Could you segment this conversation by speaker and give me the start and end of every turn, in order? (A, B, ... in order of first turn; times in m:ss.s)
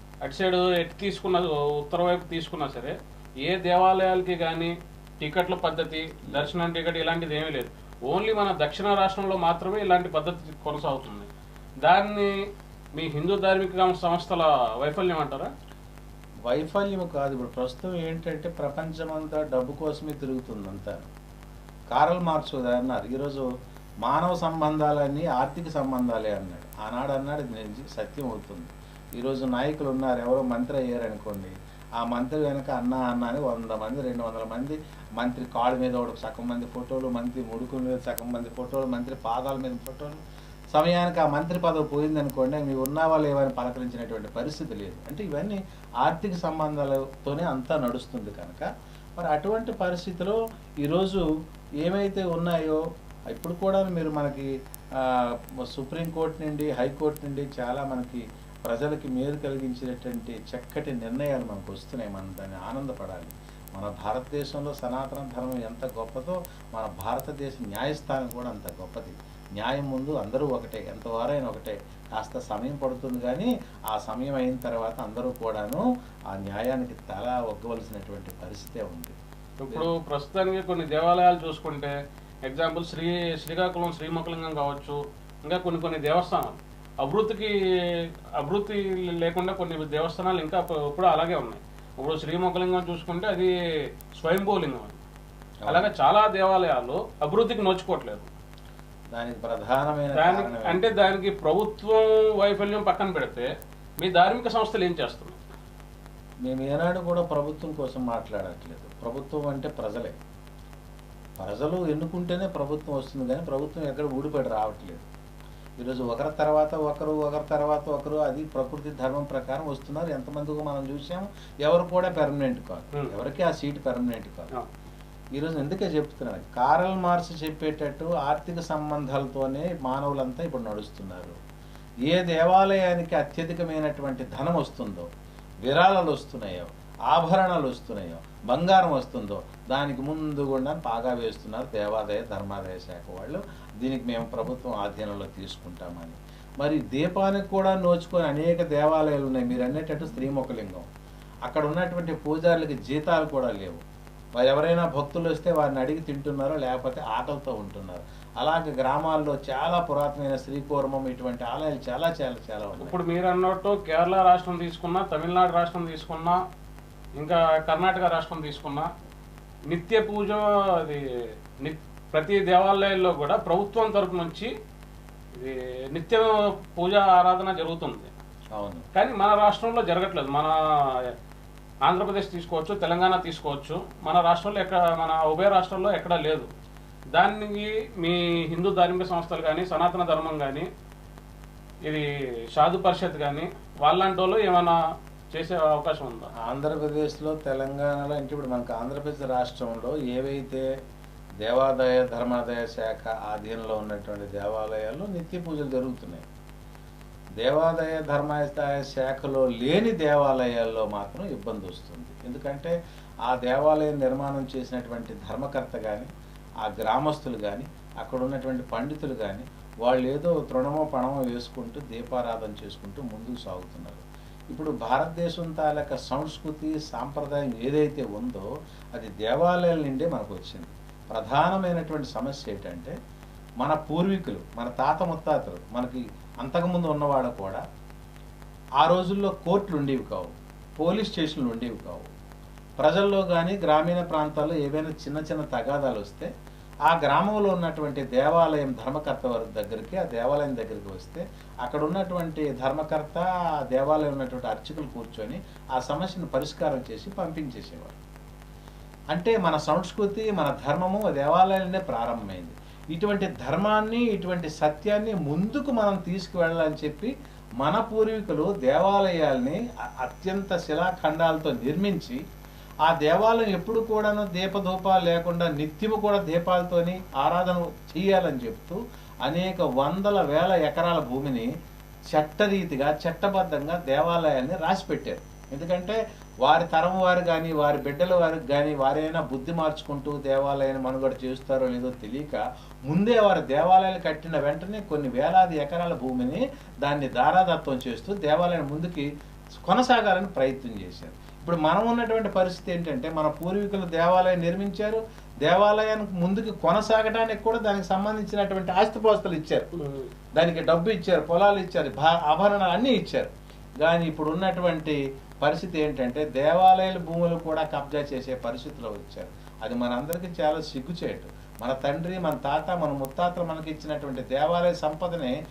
0:00.2-0:11.3 A
0:11.8-0:12.3 A
0:13.0-0:15.5 A
0:16.5-0:21.1 B
0:21.9-0:23.5 B
0:24.0-0:40.2 B
0:40.7-0:51.3 B
0:51.8-1:19.2 B
1:19.6-1:21.9 A
1:22.5-1:27.5 A
1:28.4-1:33.5 A
1:34.2-1:35.0 A
1:35.6-1:35.9 B
1:35.7-1:38.3 A
1:39.1-1:40.8 B
1:40.2-1:43.5 A
1:44.0-1:45.4 A
1:46.4-1:50.1 B
1:51.4-1:55.1 B
1:55.8-2:04.5 B
2:05.4-2:11.4 B
2:12.1-2:15.1 B
2:15.6-2:30.9 B
2:31.5-2:33.8 B
2:34.4-2:43.0 B
2:42.8-2:46.4 A
2:47.2-2:48.9 A
2:49.7-2:51.0 A
2:51.6-2:54.5 A
2:55.4-2:58.1 A
2:58.6-2:58.9 B
2:58.9-3:01.1 A
3:01.8-3:06.5 A
3:07.1-3:10.7 A
3:11.9-3:14.8 A
3:15.3-3:16.3 A
3:16.4-3:20.7 B
3:21.4-3:26.2 B
3:27.4-3:32.7 B
3:33.2-3:36.1 B
3:36.6-3:52.9 B
3:53.6-3:57.6 B
3:58.8-4:02.1 B
4:02.8-4:06.3 B
4:06.9-4:18.0 B
4:19.1-4:32.2 B
4:32.8-4:41.5 B
4:42.1-5:09.7 B
5:09.8-5:10.1 A
5:10.4-5:13.3 B
5:13.8-5:25.3 B